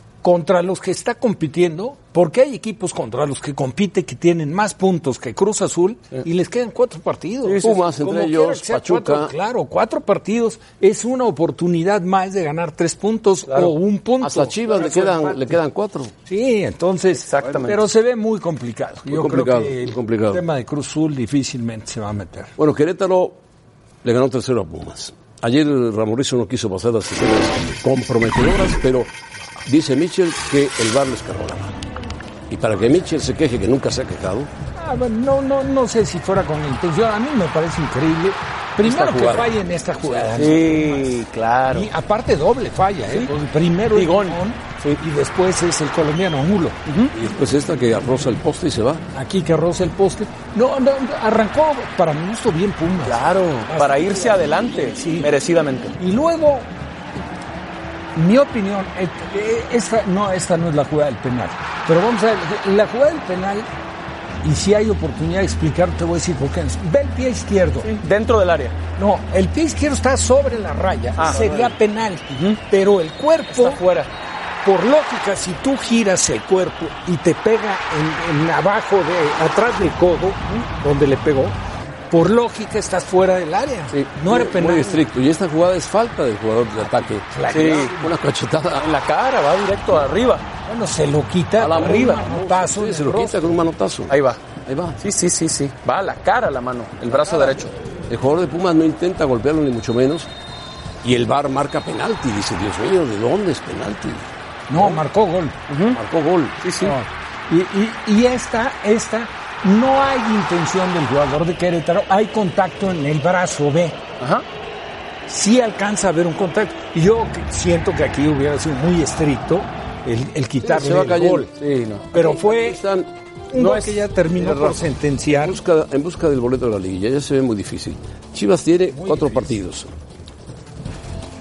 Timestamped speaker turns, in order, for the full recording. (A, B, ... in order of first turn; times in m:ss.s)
0:00.2-0:15.6 A
0:07.4-0:07.7 B
0:07.6-0:09.3 C
0:13.5-0:13.7 B
0:14.2-0:16.1 C
0:16.3-0:22.5 A
0:17.1-0:17.8 B
0:19.1-0:20.4 C
0:22.6-0:23.4 C
0:24.0-0:29.1 C
0:29.6-0:31.8 C
0:32.5-0:34.5 C
0:34.8-0:46.8 A
0:38.8-0:39.5 C
0:40.0-0:40.6 C
0:40.3-0:41.9 B
0:43.9-0:45.0 B
0:46.9-0:47.1 B
0:47.1-0:49.1 C
0:49.1-0:54.4 A
0:53.0-0:56.0 B
0:55.0-0:55.3 A
0:56.0-0:56.7 A
0:58.2-1:03.7 A
1:04.4-1:08.0 A
1:07.8-1:08.8 B
1:09.0-1:13.8 A
1:11.2-1:11.8 B
1:12.4-1:12.6 B
1:13.5-1:14.1 B
1:14.6-1:21.6 A
1:22.1-1:25.0 A
1:24.3-1:28.9 C
1:26.8-1:28.1 A
1:27.5-1:27.9 B
1:28.8-1:30.5 B
1:30.7-1:33.6 A
1:31.6-1:35.0 C
1:31.7-1:32.2 B
1:34.1-1:34.4 B
1:35.0-1:37.7 B
1:38.1-1:40.3 C
1:41.0-1:45.0 C
1:44.7-1:45.6 A
1:45.7-1:46.0 B
1:45.9-1:46.6 C
1:46.6-1:47.0 B
1:46.8-1:54.0 A
1:54.2-1:54.4 B
1:55.3-2:01.5 A
2:00.6-2:01.5 C
2:01.6-2:02.1 B
2:02.1-2:02.8 A
2:02.1-2:03.1 C
2:03.5-2:05.6 A
2:03.6-2:04.0 B
2:04.4-2:09.9 C
2:08.9-2:09.6 A